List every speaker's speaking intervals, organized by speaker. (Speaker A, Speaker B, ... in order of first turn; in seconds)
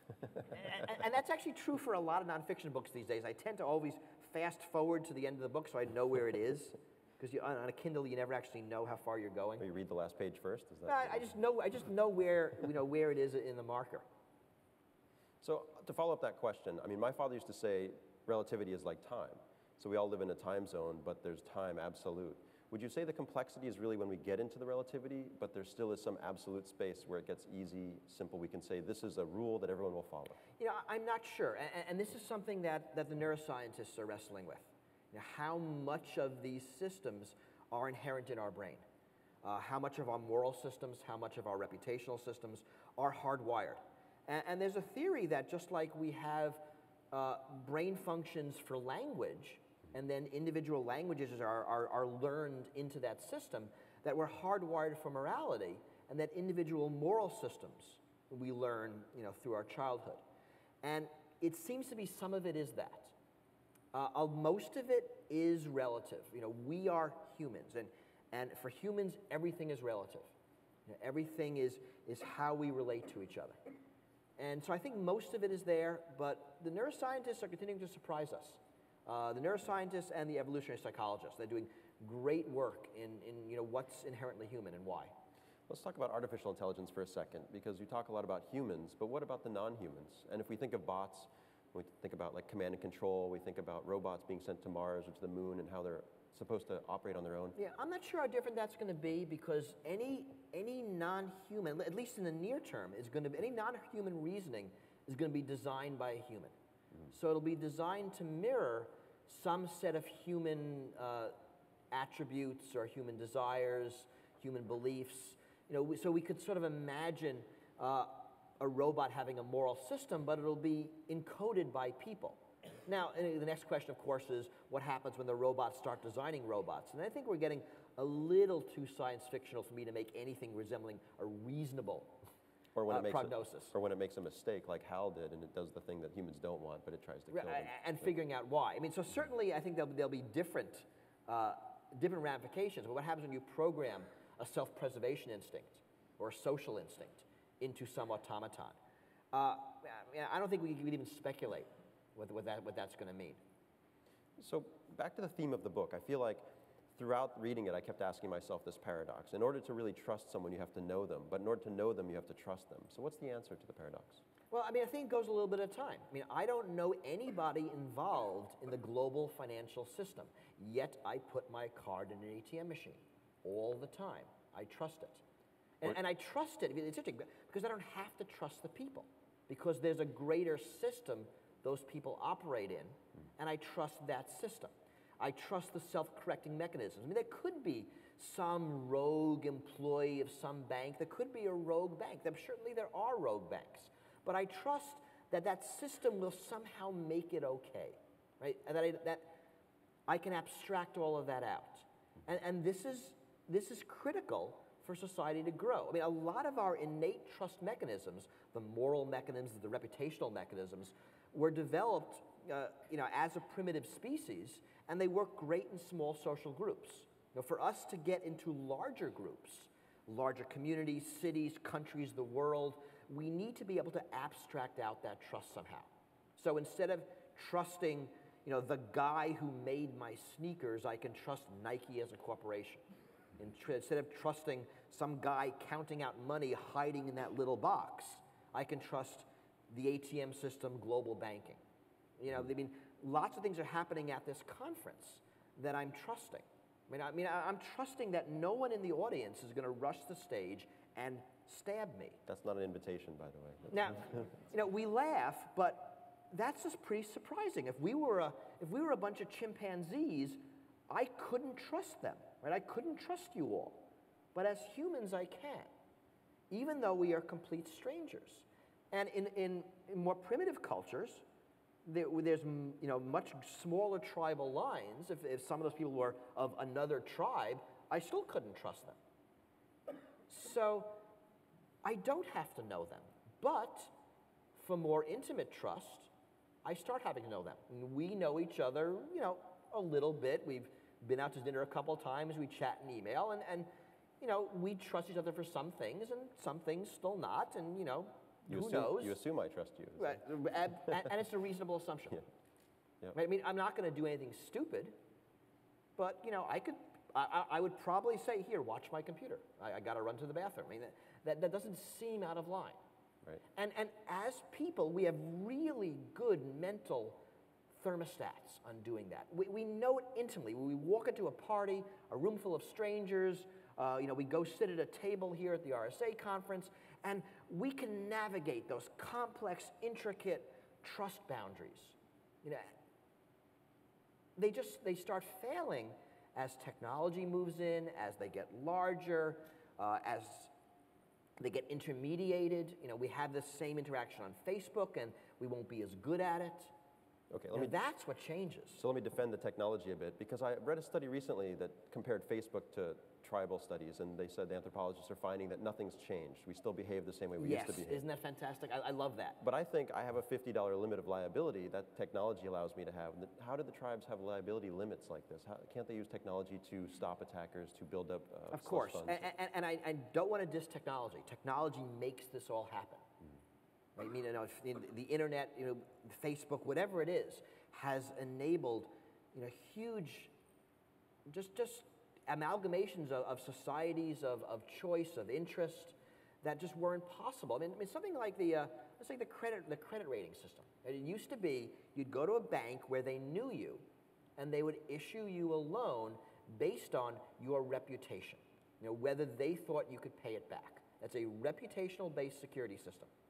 Speaker A: 0.5-9.7, 10.9-14.1, 30.6-38.9, 39.4-60.2, 60.8-63.1, 63.9-70.3, 70.9-73.6, 74.4-85.1, 97.6-106.5, 107.1-111.4, 111.9-132.2, 132.9-133.7, 137.3-148.8, 149.3-153.4, 164.5-175.2, 175.8-199.4, 200.1-232.8, 233.4-241.6, 242.2-252.2, 253.7-265.7, 266.5-271.2, 271.9-279.0, 280.3-281.0, 281.8-283.9, 284.6-286.1, 286.6-293.7, 294.2-299.2, 300.0-302.2, 303.1-305.0, 306.0-312.8, 313.6-317.2, 317.7-332.7, 334.4-340.5, 341.4-346.7, 347.5-348.8, 357.4-359.4, 368.5-373.0, 374.0-380.3, 381.3-393.8, 394.4-403.1
Speaker B: 9.6-11.3, 15.4-30.4, 85.7-97.6, 132.8-138.1, 154.4-164.2, 252.3-253.9, 298.5-300.3, 347.3-347.7, 348.8-358.0, 359.4-369.3